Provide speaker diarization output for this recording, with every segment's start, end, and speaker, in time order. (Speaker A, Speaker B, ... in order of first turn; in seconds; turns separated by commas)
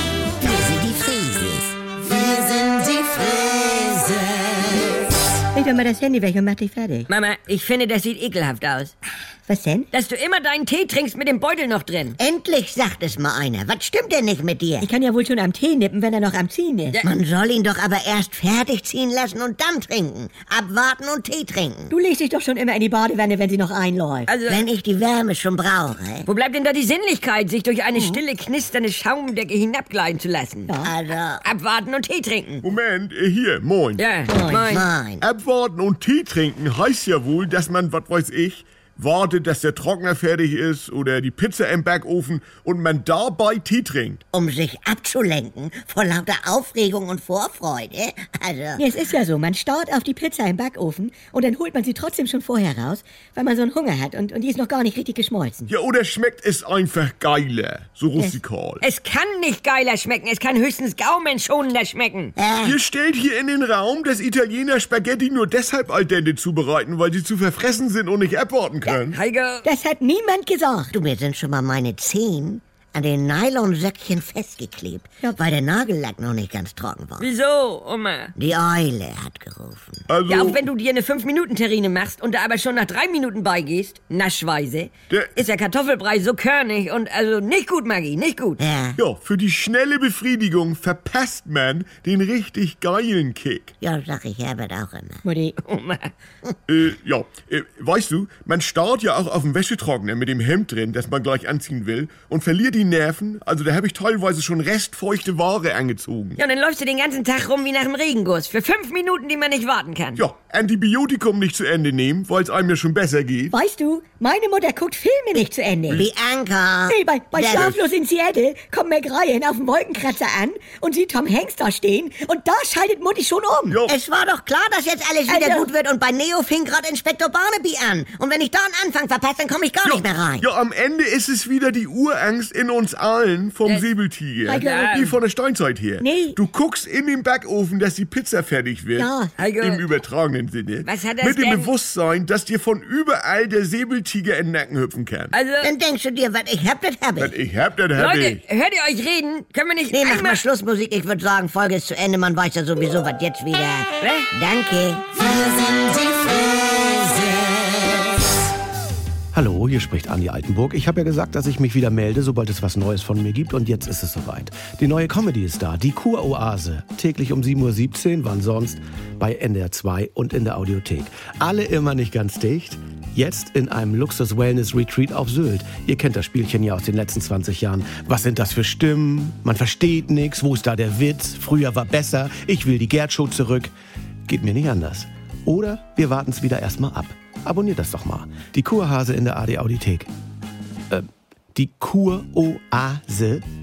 Speaker A: 0.4-1.7, Speaker A: 2.6-4.4, Speaker B: 5.5-7.1, Speaker C: 7.1-8.9, Speaker B: 9.4-9.9, Speaker C: 9.9-12.2, Speaker A: 12.2-14.9, Speaker B: 14.8-17.0, Speaker A: 17.0-21.9, Speaker B: 21.9-24.3, Speaker C: 24.3-24.6, Speaker A: 24.5-26.3, Speaker C: 26.2-30.7, Speaker B: 30.7-30.9, Speaker A: 30.8-31.4, Speaker C: 31.4-32.7, Speaker D: 32.6-34.0, Speaker C: 34.0-34.9, Speaker B: 34.3-34.8, Speaker A: 34.7-35.2, Speaker D: 35.2-44.2, Speaker A: 44.3-48.8, Speaker B: 48.8-55.7, Speaker D: 55.7-58.8, Speaker C: 58.8-62.3, Speaker A: 62.4-62.8, Speaker D: 62.6-69.2, Speaker C: 69.1-69.7, Speaker B: 69.6-70.9, Speaker A: 70.9-77.3, Speaker C: 77.2-78.3, Speaker A: 78.4-80.1, Speaker D: 80.1-80.6, Speaker C: 80.2-88.6, Speaker A: 88.6-89.0, Speaker D: 89.0-93.7, Speaker A: 93.8-95.2, Speaker B: 95.2-95.5, Speaker C: 95.6-96.1, Speaker D: 96.7-106.4, Speaker C: 106.4-110.2, Speaker D: 110.2-113.5, Speaker B: 113.5-116.1, Speaker A: 115.9-117.7, Speaker B: 116.9-123.8, Speaker D: 117.5-117.8, Speaker D: 123.7-124.0, Speaker A: 123.9-130.4, Speaker B: 125.3-125.7, Speaker D: 129.8-145.4, Speaker B: 134.4-134.9, Speaker C: 134.5-135.2, Speaker B: 136.0-136.4, Speaker B: 138.9-139.3, Speaker C: 139.4-139.8, Speaker C: 140.8-141.7, Speaker C: 145.3-145.7, Speaker A: 145.6-147.3, Speaker D: 147.2-148.4, Speaker C: 147.9-150.4, Speaker A: 149.9-157.2, Speaker C: 154.0-154.3, Speaker E: 159.3-183.7, Speaker E: 184.3-190.1, Speaker E: 190.9-193.4